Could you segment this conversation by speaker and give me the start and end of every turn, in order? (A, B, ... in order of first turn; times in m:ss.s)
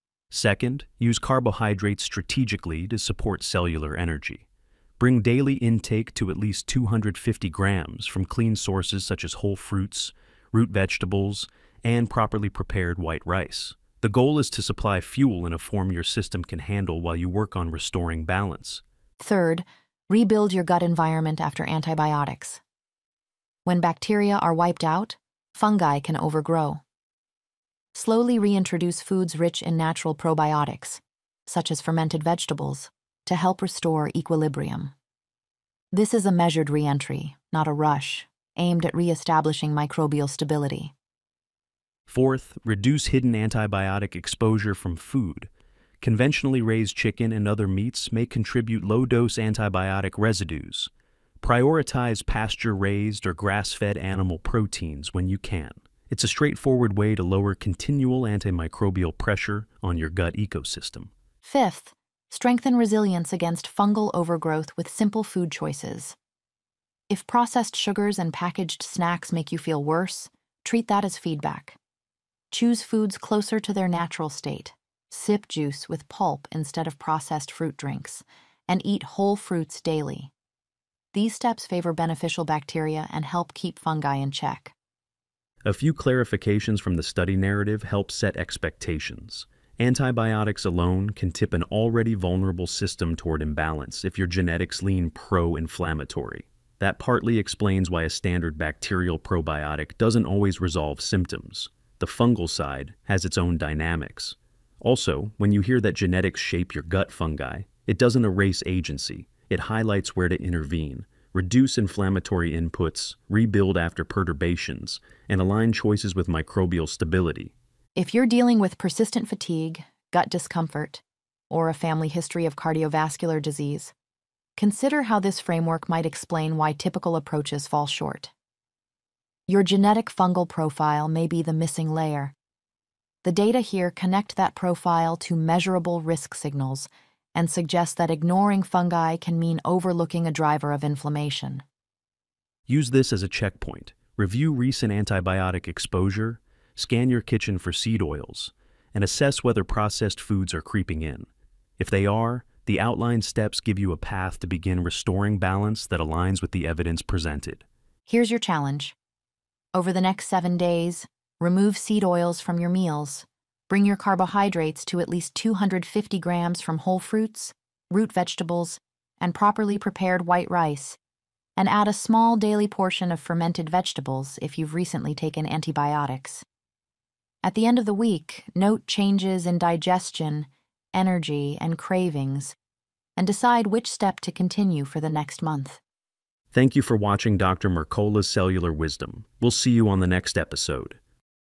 0:00.3-0:04.4 A
0:05.0-0:18.8 A
0:19.2-0:22.6 B
0:23.6-0:26.8 B
0:27.9-0:34.9 B
0:35.9-0:40.9 B
0:42.1-0:45.5 A
0:46.0-1:01.1 A
1:01.4-1:06.2 B
1:07.1-1:11.8 B
1:12.5-1:20.3 B
1:21.1-1:24.7 B
1:25.6-1:57.5 A
1:57.9-2:03.9 B
2:04.6-2:08.3 B
2:09.5-2:12.3 B
2:13.2-2:21.6 B
2:22.7-2:37.6 A
2:38.1-2:38.9 B
2:39.7-2:51.0 B
2:51.6-2:56.4 B
2:57.4-3:02.5 B
3:03.2-3:05.8 B
3:06.5-3:11.0 A